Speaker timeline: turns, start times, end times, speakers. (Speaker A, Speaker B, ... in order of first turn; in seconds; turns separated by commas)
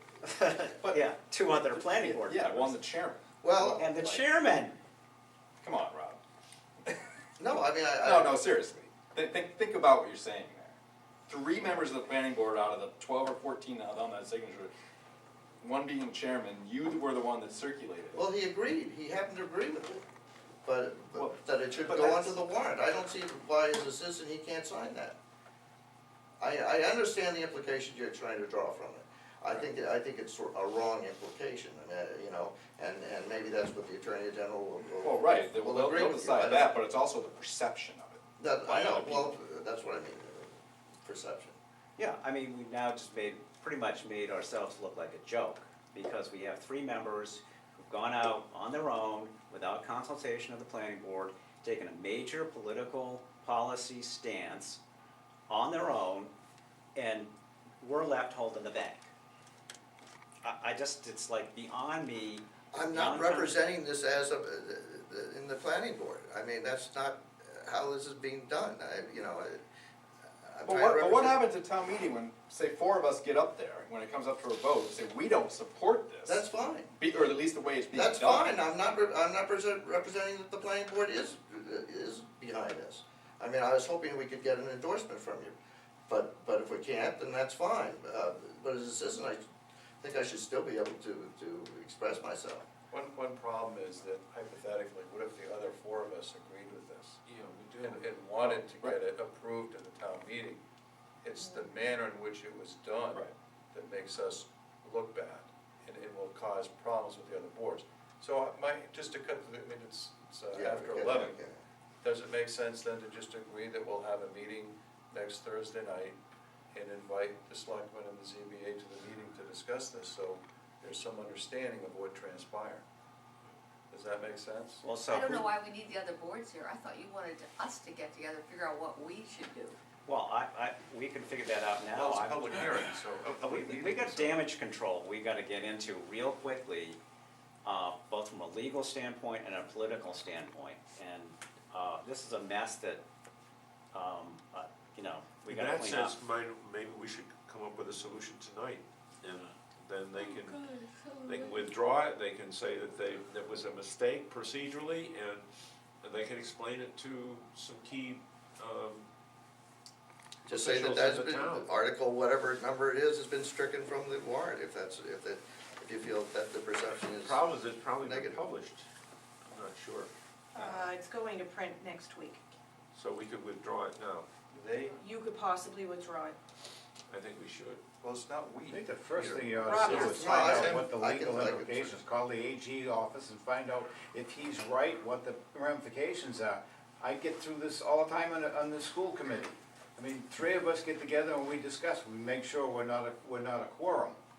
Speaker A: 0.2-2.8, Speaker B: 0.8-1.1, Speaker B: 1.7-3.2, Speaker C: 3.4-3.9, Speaker A: 3.6-4.8, Speaker B: 5.6-6.2, Speaker C: 7.4-8.4, Speaker B: 8.0-14.7, Speaker B: 15.6-18.2, Speaker C: 18.1-20.0, Speaker C: 20.6-25.2, Speaker B: 21.1-22.4, Speaker C: 26.4-36.7, Speaker B: 34.9-39.3, Speaker C: 38.4-41.5, Speaker A: 42.0-54.8, Speaker A: 55.5-56.3, Speaker A: 57.0-57.3, Speaker A: 57.8-59.1, Speaker A: 60.4-63.6, Speaker C: 62.7-69.6, Speaker C: 70.4-71.4, Speaker B: 70.6-78.6, Speaker C: 76.2-76.9, Speaker C: 77.9-85.5, Speaker C: 86.1-89.4, Speaker C: 90.0-92.7, Speaker D: 92.9-97.2, Speaker E: 97.2-98.6, Speaker D: 97.8-100.6, Speaker D: 101.2-111.3, Speaker C: 110.5-111.6, Speaker D: 112.0-116.2, Speaker D: 116.7-122.8, Speaker D: 123.9-124.8, Speaker A: 124.8-125.5, Speaker F: 125.1-129.8, Speaker A: 130.1-137.0, Speaker D: 131.9-134.5, Speaker A: 137.6-143.0, Speaker A: 143.9-146.2, Speaker E: 145.4-150.7, Speaker E: 151.2-155.4, Speaker E: 156.0-159.1, Speaker E: 160.5-161.7, Speaker C: 160.5-167.4, Speaker E: 167.2-168.8, Speaker C: 168.0-168.4, Speaker E: 169.5-170.1, Speaker G: 170.5-172.4, Speaker E: 172.9-174.3, Speaker D: 174.5-175.0, Speaker G: 174.9-176.4, Speaker E: 177.1-177.8, Speaker D: 178.0-180.9, Speaker H: 178.7-194.2, Speaker C: 179.1-181.9, Speaker G: 179.6-180.7